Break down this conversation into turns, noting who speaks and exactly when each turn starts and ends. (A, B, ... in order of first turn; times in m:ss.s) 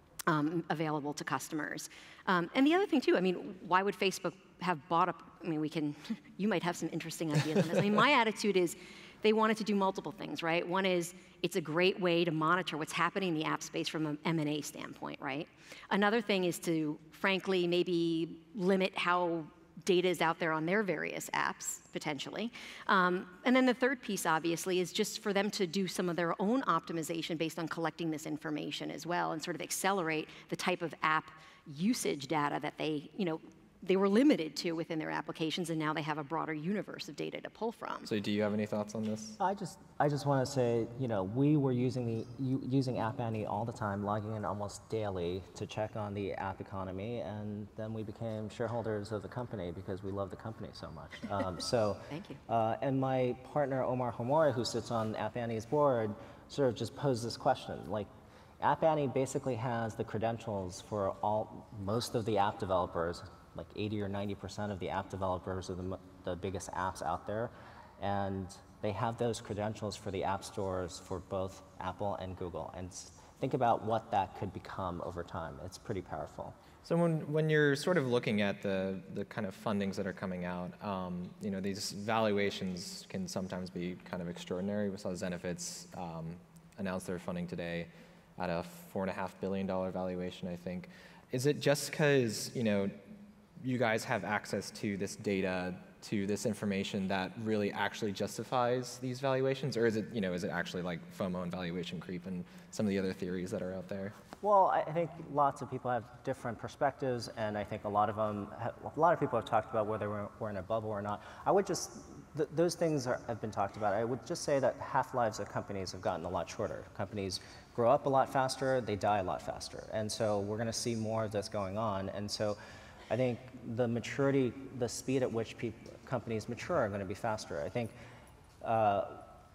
0:00.3-0:38.1 A
0:38.0-0:39.4 B
0:39.4-0:58.1 C
0:52.1-0:52.4 A
0:58.6-1:16.6 C
1:16.8-1:33.0 B
1:33.6-1:44.1 B
1:44.4-2:02.6 C
2:03.1-2:07.9 C
2:08.6-2:09.3 C